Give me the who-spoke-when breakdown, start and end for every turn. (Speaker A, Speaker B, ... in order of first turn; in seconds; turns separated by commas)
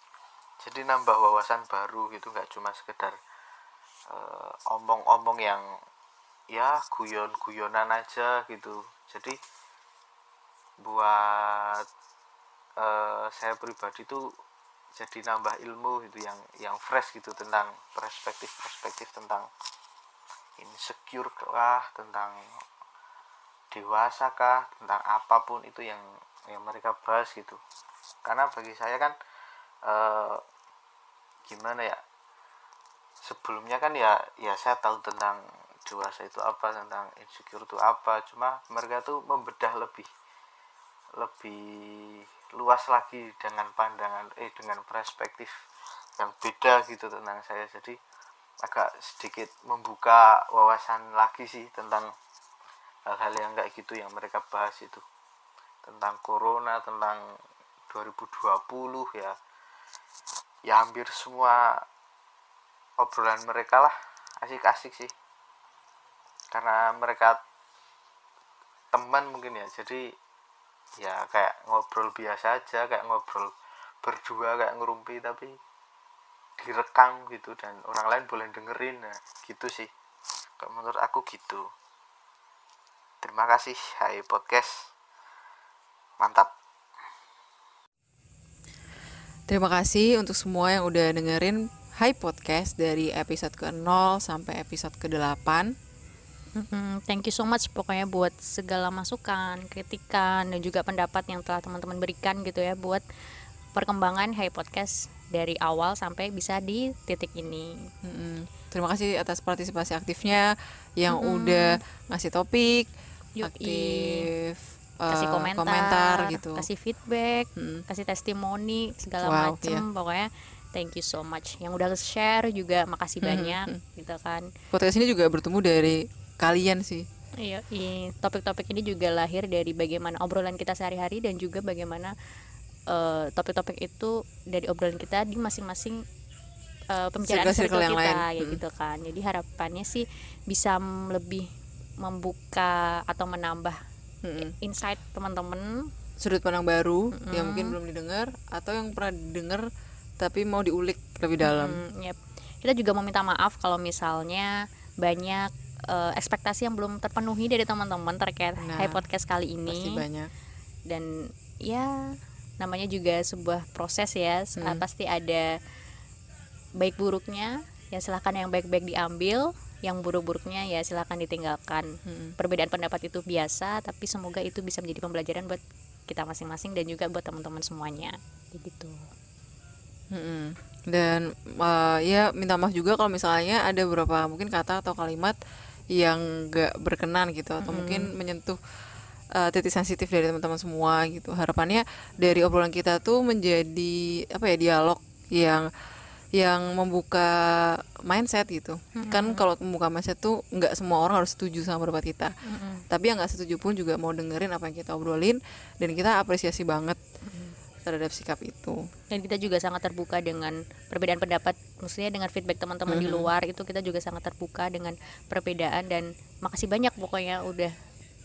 Speaker A: 0.6-3.2, Speaker A: 4.1-5.6, Speaker A: 6.5-9.4, Speaker A: 10.8-11.9, Speaker A: 12.8-14.2, Speaker A: 15.0-19.5, Speaker A: 20.6-22.4, Speaker A: 23.7-27.6, Speaker A: 28.2-29.1, Speaker A: 29.9-30.4, Speaker A: 31.5-32.0, Speaker A: 33.3-40.1, Speaker A: 41.2-42.0, Speaker A: 42.6-45.5, Speaker A: 46.2-48.0, Speaker A: 48.6-52.1, Speaker A: 53.1-55.0, Speaker A: 55.9-57.2, Speaker A: 57.9-59.4, Speaker A: 60.7-61.6, Speaker A: 63.0-65.1, Speaker A: 66.5-67.4, Speaker A: 68.9-70.0, Speaker A: 71.0-75.5, Speaker A: 76.6-79.9, Speaker A: 80.6-81.7, Speaker A: 83.2-84.7, Speaker A: 86.2-86.5, Speaker B: 89.5-95.7, Speaker C: 96.6-103.0, Speaker C: 103.8-107.9, Speaker B: 108.0-112.9, Speaker C: 111.1-111.8, Speaker C: 113.4-114.3, Speaker B: 113.4-116.7, Speaker C: 115.1-124.5, Speaker B: 117.6-117.8, Speaker B: 119.2-119.8, Speaker B: 123.2-123.8, Speaker B: 124.7-127.1, Speaker C: 127.4-132.1, Speaker C: 132.9-136.0, Speaker C: 136.9-141.5, Speaker B: 137.3-138.6, Speaker C: 142.0-143.8, Speaker B: 144.2-144.5, Speaker C: 144.4-145.7, Speaker B: 146.2-149.7, Speaker C: 147.1-147.8, Speaker B: 150.2-151.8, Speaker C: 151.4-159.9, Speaker B: 158.6-159.0, Speaker B: 159.7-160.3, Speaker C: 161.7-161.9, Speaker C: 162.6-165.5, Speaker B: 164.6-164.8, Speaker C: 166.8-179.1, Speaker B: 172.1-172.4, Speaker B: 180.1-185.4, Speaker B: 185.9-188.6, Speaker C: 187.6-188.1, Speaker B: 189.4-195.7, Speaker B: 196.3-202.3, Speaker C: 199.0-199.4, Speaker C: 202.5-202.8, Speaker B: 202.9-207.0, Speaker C: 207.3-207.6, Speaker B: 207.8-208.8, Speaker C: 209.1-217.7, Speaker B: 212.9-213.3